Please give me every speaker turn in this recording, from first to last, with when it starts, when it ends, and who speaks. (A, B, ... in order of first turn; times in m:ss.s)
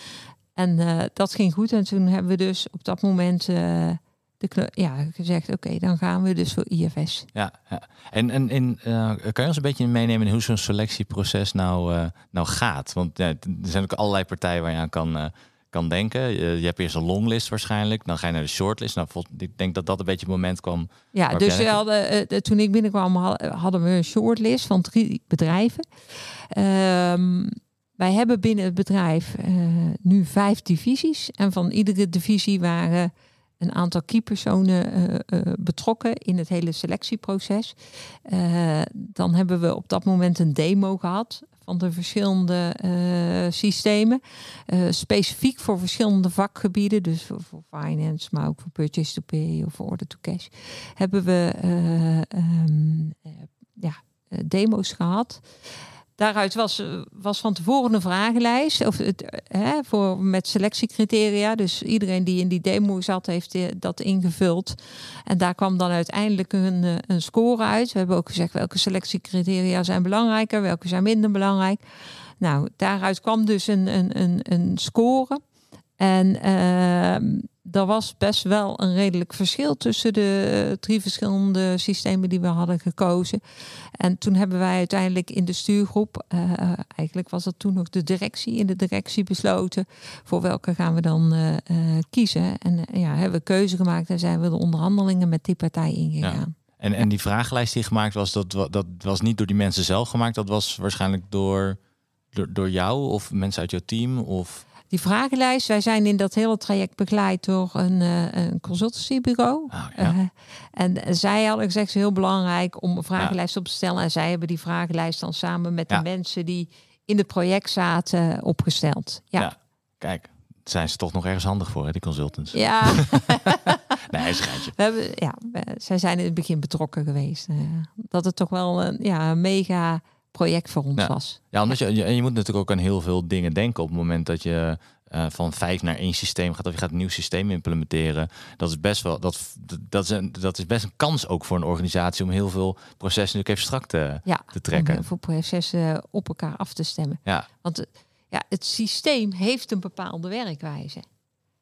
0:00.6-0:07.3 A
0:07.3-0:21.8 B
0:21.1-0:55.4 A
0:56.2-1:11.8 A
1:12.4-1:15.4 A
1:16.0-1:36.5 A
1:36.2-1:41.8 B
1:42.3-1:44.6 B
1:44.9-1:59.5 A
1:49.7-1:50.2 B
1:59.4-2:04.7 B
2:02.5-2:11.5 A
2:11.0-2:25.0 B
2:24.3-2:31.0 A